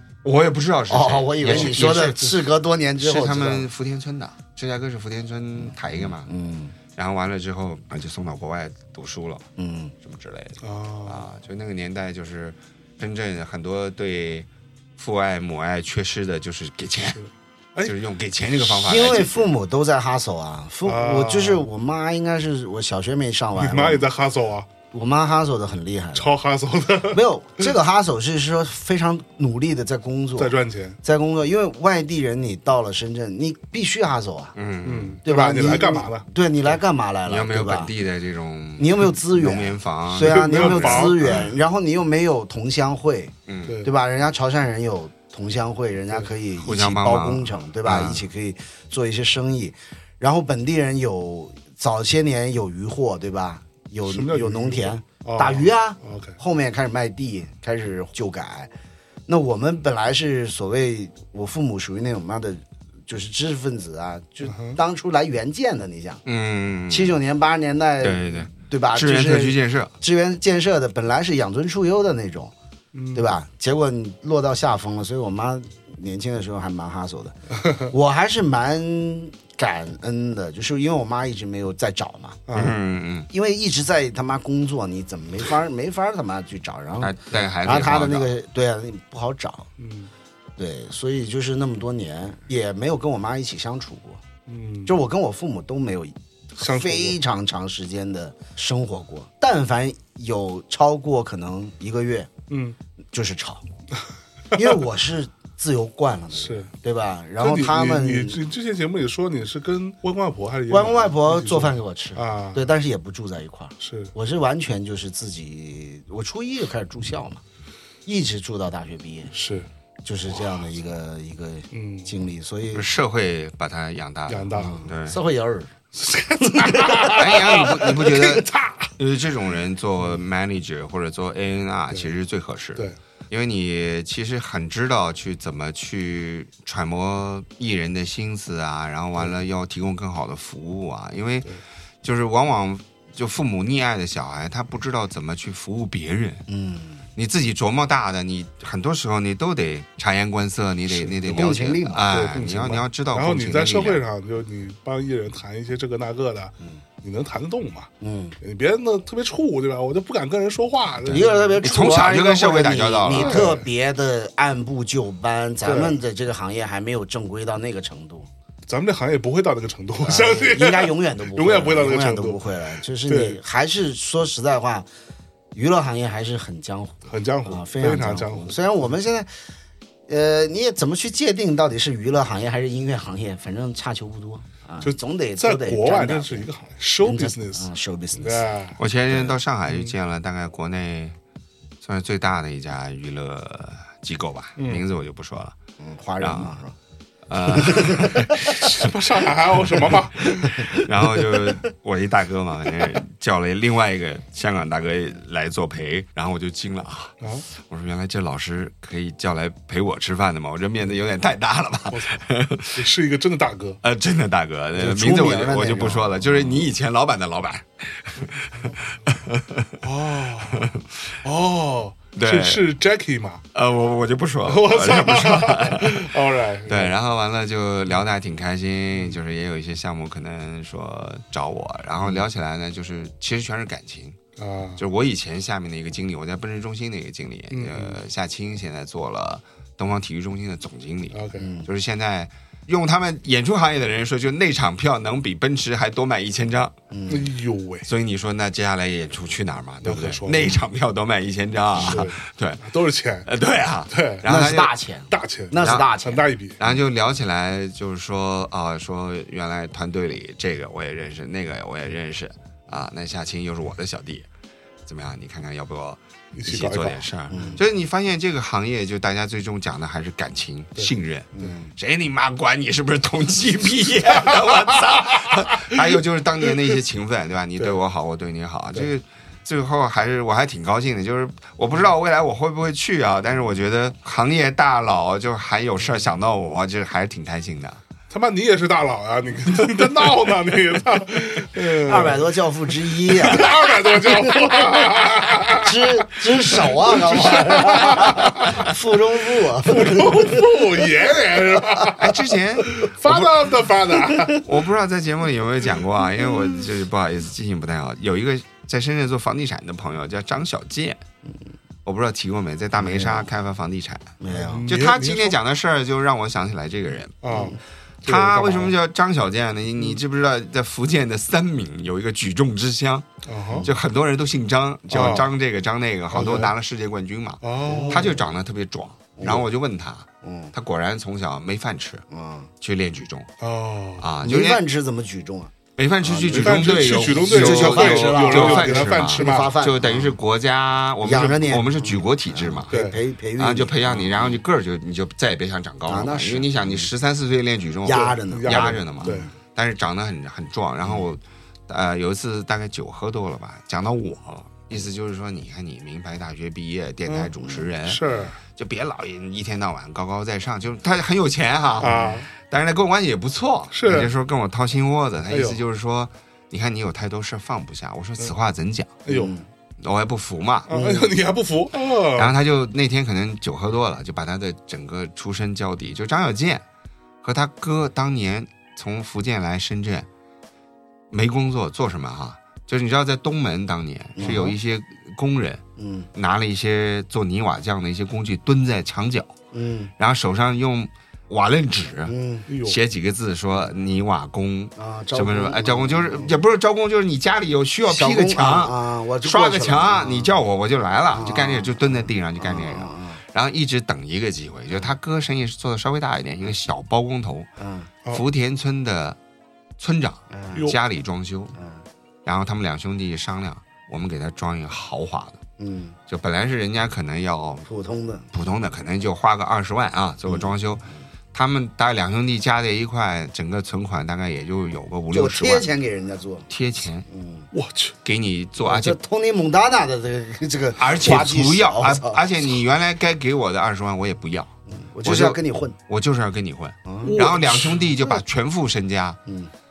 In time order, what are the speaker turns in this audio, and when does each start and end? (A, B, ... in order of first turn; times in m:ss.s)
0:00.2-0:02.5 A
0:00.9-0:03.7 B
0:03.0-0:06.3 A
0:05.6-0:06.8 B
0:07.0-0:09.5 A
0:09.6-0:09.9 B
0:10.0-0:17.2 A
0:10.6-0:11.2 C
0:17.2-0:17.9 C
0:17.8-0:19.5 A
0:18.6-0:24.1 B
0:20.8-0:21.6 C
0:23.6-0:24.7 C
0:24.9-0:26.3 B
0:26.2-0:27.7 C
0:27.1-0:34.5 B
0:30.4-0:31.0 C
0:34.6-0:35.2 A
0:34.8-0:36.3 C
0:35.2-0:37.9 B
0:37.3-0:41.4 A
0:38.8-0:58.7 B
0:40.2-0:41.5 C
0:43.5-0:43.8 A
0:46.6-0:48.2 A
0:54.1-0:56.4 C
0:59.3-1:06.2 B
1:04.4-1:04.8 C
1:06.3-1:07.2 A
1:06.9-1:12.5 B
1:08.0-1:09.9 A
1:12.9-1:13.3 C
1:13.1-1:22.5 B
1:22.5-1:22.8 C
1:22.5-1:23.3 A
1:23.3-1:29.7 B
1:27.0-1:28.3 A
1:29.8-1:30.1 C
1:30.6-1:34.2 B
1:34.5-1:34.9 C
1:34.9-1:42.3 B
1:36.6-1:37.2 C
1:42.5-1:42.8 C
1:43.1-1:43.6 B
1:44.5-1:48.4 B
1:46.3-1:46.7 C
1:47.4-1:52.6 C
1:50.7-1:57.4 B
1:53.8-1:54.1 C
1:58.0-1:59.3 B
1:59.3-1:59.7 C
2:00.0-2:02.9 B
2:01.7-2:02.1 C
2:02.7-2:05.2 A
2:04.3-2:04.9 C
2:04.5-2:05.8 B
2:06.0-2:08.9 C
2:06.4-2:07.7 B
2:07.1-2:21.5 A
2:22.0-2:26.4 A
2:26.5-2:27.0 B
2:27.2-2:34.0 A
2:31.2-2:32.1 B
2:32.1-2:37.9 C
2:38.0-2:38.4 B
2:38.4-2:41.6 C
2:41.0-2:43.5 A
2:41.1-2:48.3 B
2:43.1-2:43.6 C
2:45.6-2:46.0 C
2:48.7-2:53.4 C
2:50.0-2:54.9 B
2:55.5-2:59.3 B
2:57.1-2:58.6 C
3:00.1-3:08.5 B
3:04.8-3:08.8 C
3:08.8-3:11.2 A
3:09.7-3:09.9 C
3:11.8-3:15.6 A
3:14.6-3:14.8 C
3:15.8-3:16.8 B
3:16.2-3:16.5 A
3:17.3-3:18.9 A
3:17.5-3:18.4 B
3:18.5-3:20.7 C
3:19.7-3:32.8 A
3:31.9-3:33.8 C
3:33.8-3:39.8 A
3:34.8-3:36.7 B
3:39.8-3:40.7 C
3:40.5-3:40.9 A
3:41.2-3:43.4 C
3:42.2-3:42.6 A
3:43.5-3:46.2 A
3:44.5-3:46.9 C
3:46.7-3:54.2 A
3:54.4-3:54.8 C
3:54.8-4:06.8 A
3:57.5-3:58.0 C
4:01.1-4:01.5 C
4:01.4-4:01.7 B
4:06.9-4:07.3 B
4:07.1-4:07.9 C
4:07.8-4:12.6 A
4:09.8-4:10.6 C
4:11.8-4:12.1 B
4:11.8-4:13.3 C
4:13.2-4:14.7 A
4:13.9-4:14.3 C
4:14.2-4:16.3 B
4:15.1-4:16.6 C
4:15.6-4:15.9 A
4:16.6-4:24.3 A
4:24.9-4:47.8 A
4:26.4-4:27.0 C
4:27.3-4:27.6 B
4:31.4-4:31.7 B
4:48.1-4:52.3 C
4:51.6-5:00.9 B
4:53.0-4:58.7 C
4:59.4-5:04.4 C
5:01.6-5:01.9 B
5:02.0-5:03.4 A
5:04.3-5:11.0 A
5:11.8-5:14.2 A
5:12.8-5:13.3 B
5:14.2-5:14.7 B
5:14.3-5:15.4 C
5:14.7-5:17.5 A
5:17.2-5:18.8 C
5:17.3-5:17.6 B
5:18.0-5:23.1 A
5:23.3-5:23.7 C
5:23.6-5:32.0 A
5:24.9-5:25.3 C
5:26.1-5:26.5 C
5:27.4-5:28.2 C
5:27.6-5:28.2 B
5:29.2-5:29.5 B
5:30.2-5:30.5 B
5:32.1-5:32.5 B
5:32.6-5:33.3 A
5:33.4-5:34.1 C
5:34.0-5:34.6 A
5:34.2-5:35.5 B
5:35.8-5:42.7 A
5:36.0-5:40.2 B
5:36.3-5:39.6 C
5:41.0-5:44.4 B
5:42.7-5:43.0 C
5:43.4-6:09.0 A
5:45.9-5:46.9 B
5:47.8-5:49.3 B
5:47.9-5:49.3 C
5:57.1-5:57.3 C
5:57.8-5:58.4 C
6:01.8-6:02.3 C
6:01.8-6:02.2 B
6:03.7-6:04.1 C
6:05.3-6:05.6 C
6:09.0-6:09.4 C
6:09.1-6:09.4 B
6:09.8-6:10.7 A
6:10.7-6:12.3 C
6:10.7-6:11.1 B
6:12.2-6:16.6 A
6:17.2-6:20.1 A
6:21.1-6:25.6 A
6:24.2-6:24.6 B
6:24.2-6:24.5 C
6:25.8-6:26.1 B
6:26.1-6:29.4 A
6:29.5-6:29.9 B
6:30.0-6:47.5 A
6:32.1-6:32.5 B
6:32.5-6:32.8 C
6:34.8-6:36.4 B
6:37.9-6:40.4 B
6:41.1-6:43.2 B
6:47.6-6:47.9 B
6:48.1-6:49.2 A
6:49.8-6:51.6 A
6:50.3-6:50.7 B
6:51.6-6:51.8 B
6:52.2-6:55.4 A
6:55.6-6:56.0 B
6:56.1-6:57.6 A
6:57.6-6:58.3 B
6:58.3-7:05.7 A
7:00.3-7:00.5 B
7:05.1-7:06.5 B
7:06.5-7:07.1 A
7:07.1-7:07.5 B
7:07.5-7:08.0 C
7:08.0-7:09.0 A
7:08.6-7:12.2 B
7:10.8-7:14.5 A
7:14.7-7:15.8 B
7:15.0-7:19.2 A
7:16.8-7:17.2 B
7:17.0-7:17.9 C
7:19.3-7:19.5 B